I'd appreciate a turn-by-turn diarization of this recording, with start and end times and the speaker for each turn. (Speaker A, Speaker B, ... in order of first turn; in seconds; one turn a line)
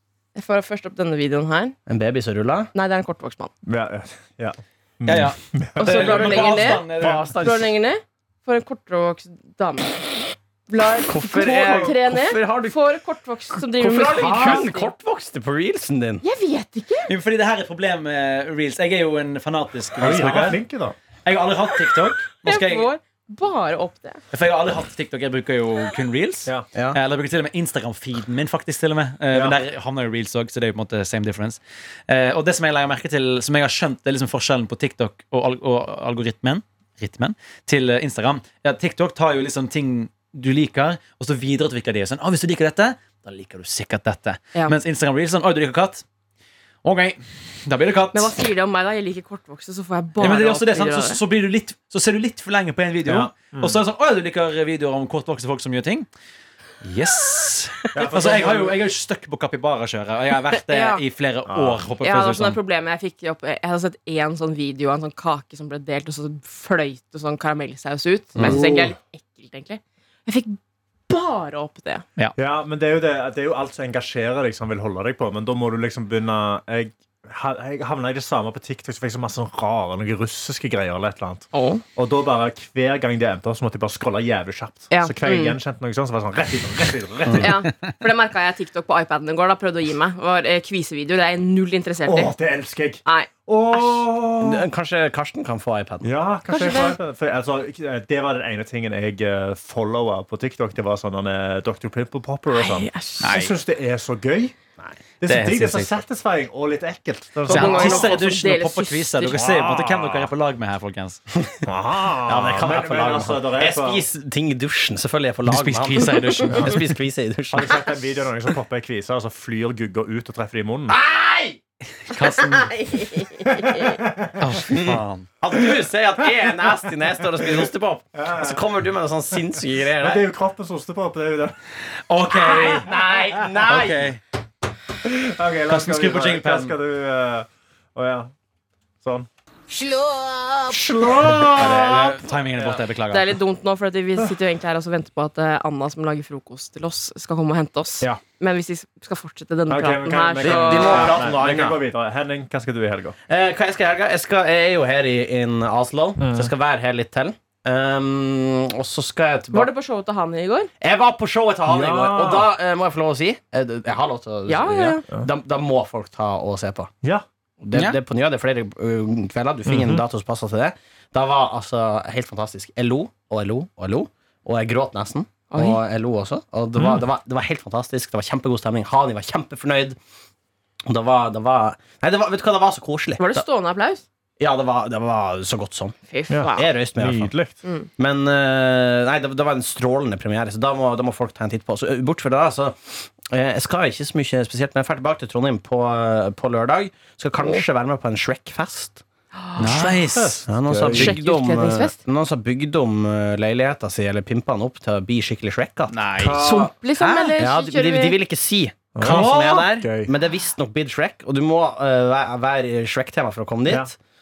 Speaker A: 0.3-1.8
Speaker B: 1.9-2.7
Speaker A: 2.7-3.5
Speaker C: 3.6-7.7
Speaker D: 5.0-7.3
Speaker A: 5.8-10.1
Speaker B: 6.2-7.6
Speaker A: 10.7-14.9
Speaker B: 11.1-12.8
Speaker C: 11.6-11.9
Speaker B: 13.7-16.2
Speaker C: 14.2-14.6
Speaker A: 16.2-17.1
Speaker D: 17.1-20.6
Speaker C: 20.0-21.0
Speaker D: 21.2-22.9
Speaker A: 22.4-24.2
Speaker D: 24.3-46.0
Speaker B: 26.7-27.0
Speaker C: 29.3-29.6
Speaker D: 46.8-48.3
Speaker A: 48.1-51.2
Speaker D: 50.2-56.1
Speaker C: 53.0-53.8
Speaker D: 56.8-62.6
Speaker C: 57.9-58.8
Speaker A: 60.6-61.0
Speaker C: 61.5-61.8
Speaker A: 62.0-70.6
Speaker C: 68.4-68.9
Speaker A: 71.1-72.0
Speaker C: 72.4-87.5
Speaker A: 81.5-81.8
Speaker A: 84.9-85.6
Speaker A: 87.4-92.3
Speaker C: 92.1-94.7
Speaker A: 93.0-94.0
Speaker B: 94.4-96.1
Speaker C: 96.0-104.5
Speaker A: 96.5-97.0
Speaker A: 102.5-103.3
Speaker D: 103.2-103.5
Speaker C: 105.2-108.1
Speaker D: 105.2-106.0
Speaker A: 107.5-109.4
Speaker D: 107.5-111.2
Speaker C: 109.3-110.3
Speaker C: 111.7-114.0
Speaker B: 112.3-117.8
Speaker D: 115.5-116.9
Speaker C: 116.5-116.8
Speaker C: 117.5-121.0
Speaker B: 120.9-121.6
Speaker D: 122.1-122.7
Speaker A: 122.4-124.0
Speaker C: 123.5-125.0
Speaker D: 124.4-125.3
Speaker B: 124.7-130.2
Speaker C: 127.4-128.8
Speaker C: 129.3-131.6
Speaker D: 132.1-133.0
Speaker C: 132.4-133.8
Speaker B: 132.6-134.1
Speaker D: 133.7-134.2
Speaker C: 135.0-138.3
Speaker D: 135.7-136.7
Speaker C: 139.0-139.3
Speaker C: 140.7-142.8
Speaker D: 141.4-143.4
Speaker A: 143.1-151.2
Speaker C: 149.7-153.2
Speaker B: 150.4-151.8
Speaker B: 153.3-159.7
Speaker C: 156.2-156.5
Speaker A: 159.5-160.7
Speaker B: 160.8-166.9
Speaker C: 161.7-162.5
Speaker A: 164.5-165.0
Speaker B: 167.6-180.0
Speaker D: 167.7-168.0
Speaker C: 169.7-170.1
Speaker A: 175.5-175.8
Speaker C: 176.8-177.0
Speaker B: 180.9-183.4
Speaker A: 183.2-184.0
Speaker B: 184.4-185.9
Speaker A: 186.1-186.7
Speaker C: 186.3-187.6
Speaker B: 186.6-187.3
Speaker A: 187.6-187.9
Speaker B: 188.0-199.0
Speaker A: 199.4-200.0
Speaker D: 199.6-200.4
Speaker C: 200.1-201.2
Speaker B: 200.5-206.0
Speaker A: 200.9-202.0
Speaker D: 205.9-206.4
Speaker C: 206.2-206.7
Speaker A: 206.4-208.2
Speaker B: 207.0-213.9
Speaker C: 208.9-210.1
Speaker D: 209.0-209.8
Speaker C: 213.7-213.9